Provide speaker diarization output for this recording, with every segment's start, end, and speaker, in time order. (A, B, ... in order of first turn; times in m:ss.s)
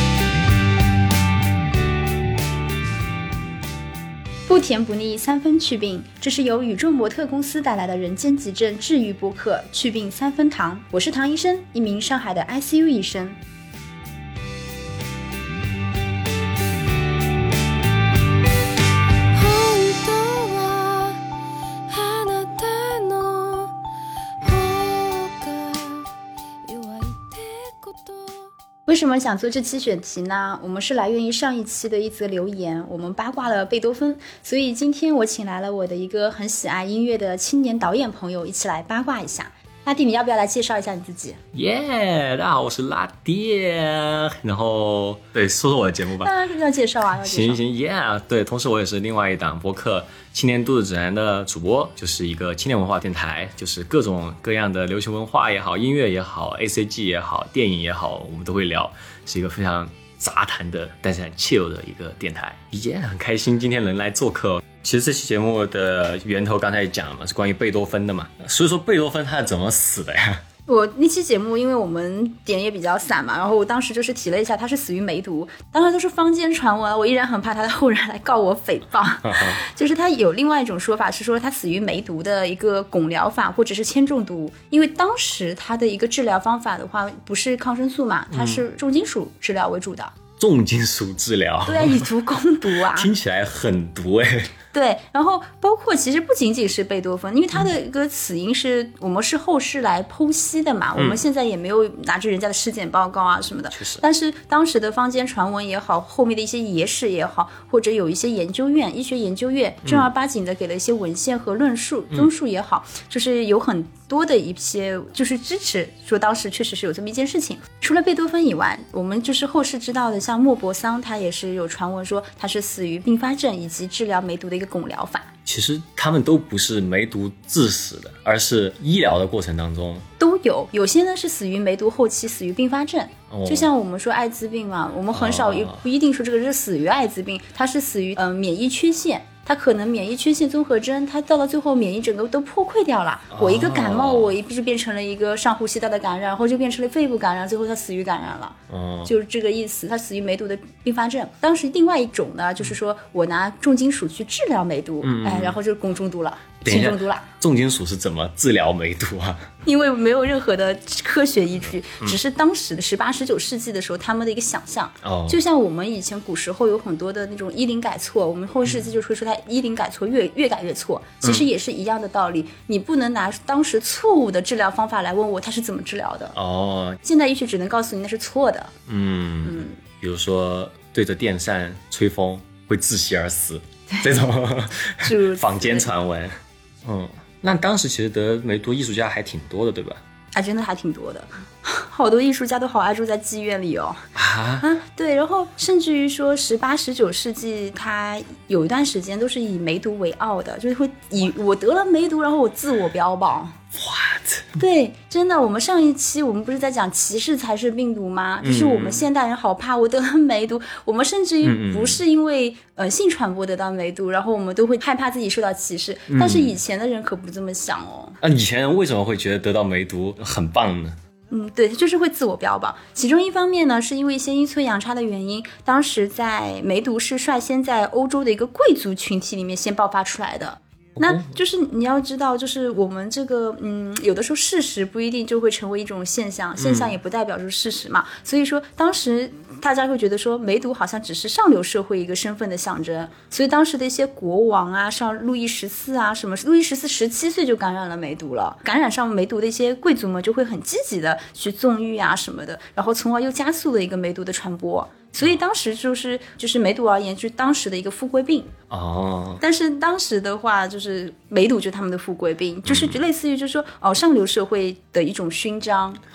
0:04.5-0:13.4 A
0:19.3-0:21.2 B
0:21.9-0:23.7 B
0:24.4-0:26.1 B
0:26.6-0:28.5 B
0:28.9-0:41.4 A
0:41.5-0:46.3 C
0:46.2-0:47.6 A
0:47.2-1:10.4 C
1:10.7-1:30.1 A
1:19.2-1:19.6 C
1:28.3-1:28.6 C
1:30.4-1:32.1 C
1:31.7-1:33.1 A
1:32.6-1:34.5 C
1:34.7-2:05.3 A
1:41.0-1:41.2 C
1:43.7-1:44.0 C
2:05.4-2:10.1 C
2:10.2-2:37.3 A
2:13.3-2:13.7 C
2:15.1-2:15.8 C
2:23.3-2:24.4 C
2:28.7-2:29.1 C
2:35.0-2:35.6 C
2:36.6-2:39.5 C
2:39.6-2:56.4 A
2:45.0-2:45.4 C
2:51.2-2:51.5 C
2:56.4-2:57.0 C
2:57.0-2:58.7 A
2:58.9-3:10.0 C
2:59.4-2:59.8 A
3:03.9-3:04.2 A
3:05.0-3:05.9 A
3:10.3-3:14.0 A
3:14.2-3:14.7 C
3:14.6-3:23.6 A
3:23.8-3:24.6 C
3:24.6-3:38.2 A
3:28.4-3:29.0 C
3:31.4-3:32.0 C
3:36.1-3:36.6 C
3:38.2-3:41.0 C
3:41.3-4:18.5 A
3:51.0-3:51.3 C
3:56.6-3:57.0 C
4:18.7-4:19.4 C
4:19.4-4:26.0 A
4:22.7-4:23.0 C